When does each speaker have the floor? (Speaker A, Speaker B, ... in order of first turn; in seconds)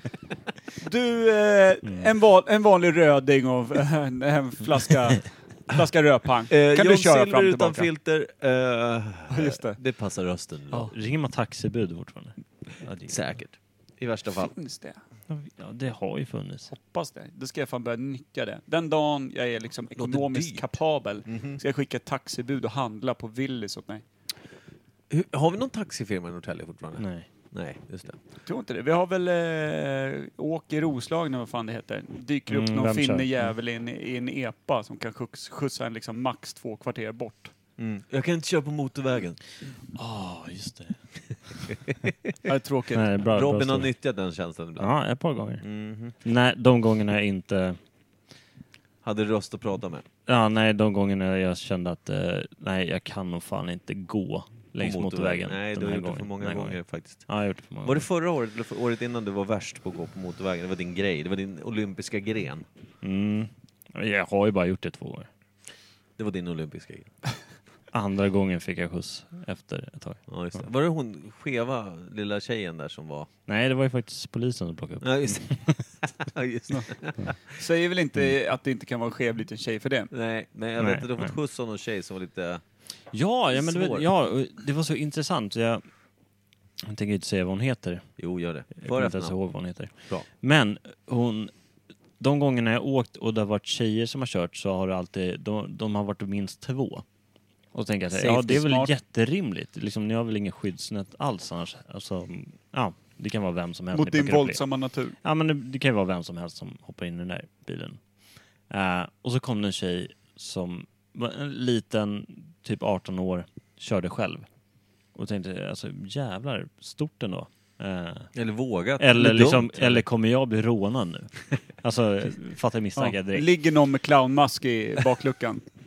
Speaker A: 0.8-7.9, 9.3-9.8, 14.4-15.0, 16.7-24.0, 28.5-37.5, 42.5-43.0, 77.5-80.1, 98.2-98.9, 103.9-105.2, 123.0-125.6
Speaker B: 6.5-10.9, 13.1-14.5, 20.0-20.6, 21.3-21.6, 25.1-28.2, 37.8-39.4, 43.2-44.9, 45.6-46.1, 49.0-50.1, 54.8-57.2, 57.8-62.7, 66.2-67.1, 70.3-73.3, 75.0-75.5, 76.0-77.3, 80.1-82.6, 83.5-84.1, 88.2-89.3, 118.3-120.0
Speaker C: 10.7-13.2, 15.3-16.7, 27.0-27.3, 32.5-33.5, 40.0-41.0, 42.9-43.9, 44.8-45.7, 46.2-47.8, 50.3-58.1, 63.0-65.3, 67.9-70.2, 73.5-75.8, 80.8-81.3, 83.1-85.8, 86.8-88.1, 88.8-91.5, 92.2-97.0, 97.7-104.6, 105.2-108.0, 108.7-114.5, 115.2-118.3, 119.0-121.3, 121.8-123.5